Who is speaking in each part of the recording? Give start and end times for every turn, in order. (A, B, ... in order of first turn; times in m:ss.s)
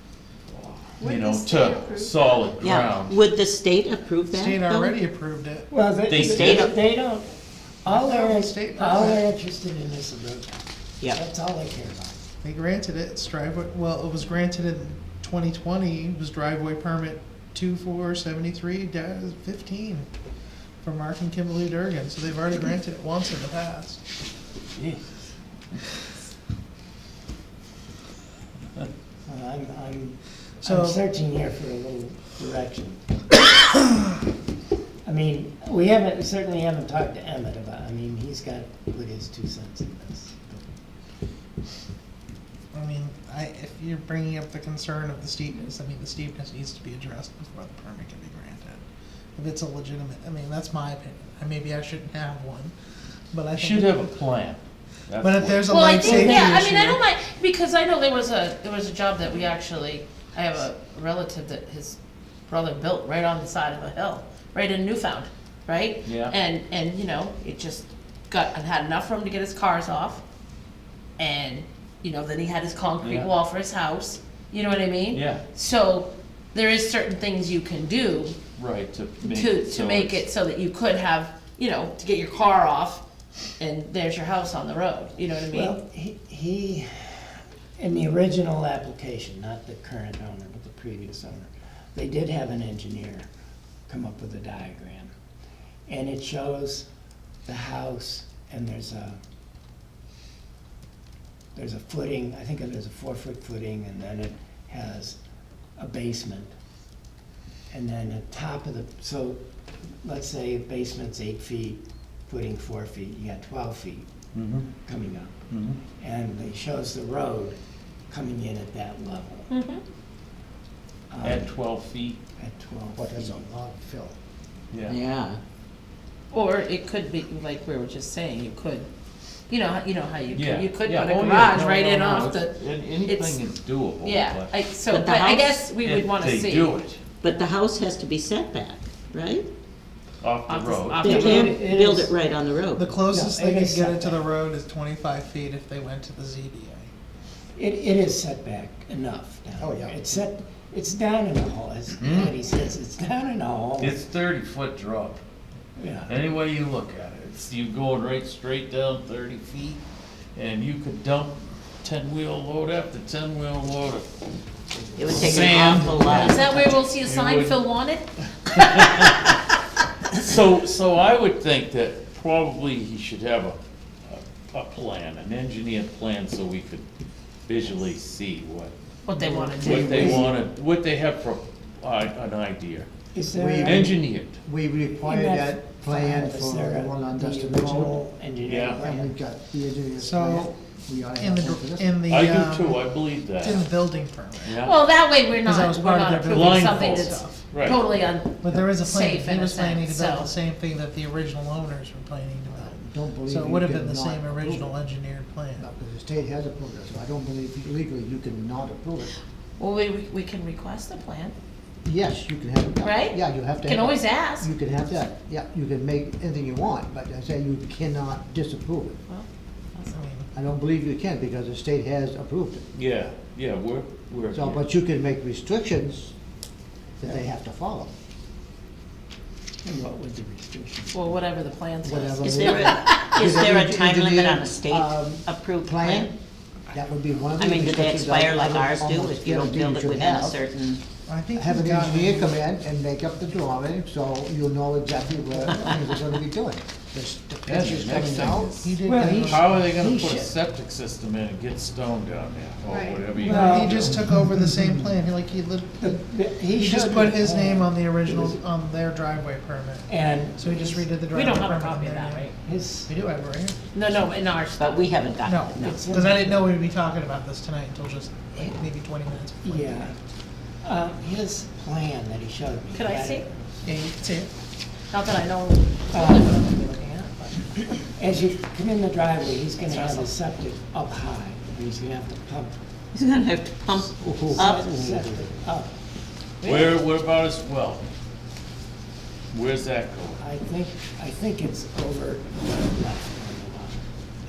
0:01.0-0:03.2 A
0:01.1-0:02.0 B
0:02.7-0:04.9 C
0:04.3-0:05.7 D
0:05.7-0:07.3 E
0:06.1-0:06.6 A
0:06.4-0:06.7 C
0:07.8-0:09.2 D
0:07.8-0:10.6 E
0:11.1-0:12.2 E
0:12.4-0:20.1 D
0:20.8-0:24.0 D
0:24.8-0:25.0 A
0:29.3-0:33.0 E
0:30.6-0:31.0 D
0:35.0-0:40.7 E
0:42.7-0:48.8 D
0:49.4-0:52.7 D
0:53.3-0:54.1 D
0:53.5-0:56.5 A
0:55.2-0:57.0 D
0:55.7-1:10.2 B
1:06.0-1:06.3 A
1:11.2-1:18.4 B
1:13.0-1:13.3 A
1:15.1-1:15.4 A
1:18.6-1:20.2 A
1:19.2-1:23.0 B
1:23.6-1:25.8 B
1:25.5-1:33.2 E
1:33.9-1:35.1 E
1:35.9-1:36.9 E
1:37.4-1:39.2 E
1:41.5-1:45.2 E
1:45.8-1:46.5 E
1:47.7-1:49.4 E
1:50.0-1:54.1 E
1:54.3-1:54.7 A
1:54.8-1:55.4 E
1:55.5-1:55.8 A
1:56.0-1:57.6 E
1:58.1-1:59.5 E
1:59.5-1:59.8 B
2:01.1-2:01.5 E
2:01.2-2:02.2 A
2:02.4-2:03.4 E
2:03.0-2:04.2 F
2:04.7-2:05.0 A
2:04.9-2:05.4 C
2:06.3-2:08.9 B
2:09.5-2:13.4 B
2:10.3-2:14.5 A
2:14.0-2:16.8 B
2:15.8-2:17.0 A
2:17.2-2:19.4 C
2:20.2-2:21.2 A
2:20.5-2:21.6 B
2:21.0-2:22.1 E
2:21.2-2:22.8 C
2:22.7-2:26.9 D
2:23.0-2:24.3 E
2:27.6-2:34.0 E
2:29.6-2:30.2 F
2:32.0-2:32.3 A
2:33.8-2:35.2 A
2:35.8-2:36.1 E
2:36.0-2:39.8 A
2:40.3-2:44.1 A
2:45.0-2:45.6 E
2:45.0-2:46.7 C
2:45.1-2:46.2 F
2:45.1-2:47.6 A
2:46.1-2:48.1 B
2:48.4-2:49.4 A
2:48.6-2:48.8 B
2:50.1-2:56.8 A
2:57.5-2:58.7 A
2:59.0-3:00.2 B
2:59.2-3:00.3 F
2:59.5-3:00.3 E
2:59.6-3:02.9 A
3:03.1-3:04.0 E
3:03.3-3:08.0 F
3:03.6-3:04.4 A
3:05.0-3:09.1 E
3:08.4-3:08.8 A
3:08.8-3:12.0 F
3:10.0-3:10.5 D
3:11.2-3:14.6 D
3:12.1-3:13.7 A
3:14.4-3:14.8 A
3:14.5-3:20.3 B
3:15.4-3:17.5 D
3:16.3-3:17.8 A
3:18.4-3:25.6 D
3:22.6-3:24.7 F
3:25.6-3:29.1 F
3:29.6-3:31.3 B
3:31.8-3:39.0 F
3:32.8-3:34.5 B
3:39.1-3:40.0 B
3:39.9-3:40.3 D
3:40.3-3:42.6 F
3:42.7-3:44.6 A
3:44.3-3:46.1 F
3:47.0-3:47.9 F
3:49.6-3:51.3 E
3:50.9-3:53.4 B
3:51.8-3:56.2 F
3:52.4-3:56.1 C
3:56.7-4:00.4 F
3:57.4-4:00.8 C
4:01.0-4:02.4 D
4:01.3-4:08.6 F
4:07.4-4:14.0 A
4:08.6-4:09.8 D
4:08.8-4:10.3 E
4:13.2-4:22.3 D
4:13.2-4:13.8 E
4:14.1-4:14.9 F
4:15.8-4:18.4 E
4:19.9-4:20.9 E
4:21.0-4:22.3 B
4:22.4-4:22.9 E
4:22.8-4:23.6 D
4:23.7-4:25.6 B
4:24.6-4:25.7 C
4:25.2-4:30.0 D
4:25.6-4:26.6 E
4:29.4-4:29.9 E
4:30.6-4:33.7 E
4:32.7-4:33.3 B
4:33.7-4:34.3 D
4:34.9-4:37.6 B
4:35.9-4:36.4 E
4:37.8-4:42.6 E
4:39.7-4:40.1 B
4:42.9-4:44.6 C
4:44.0-4:45.3 F
4:44.3-4:45.8 E
4:46.4-4:47.8 A
4:49.3-4:50.2 A
4:50.2-4:53.8 E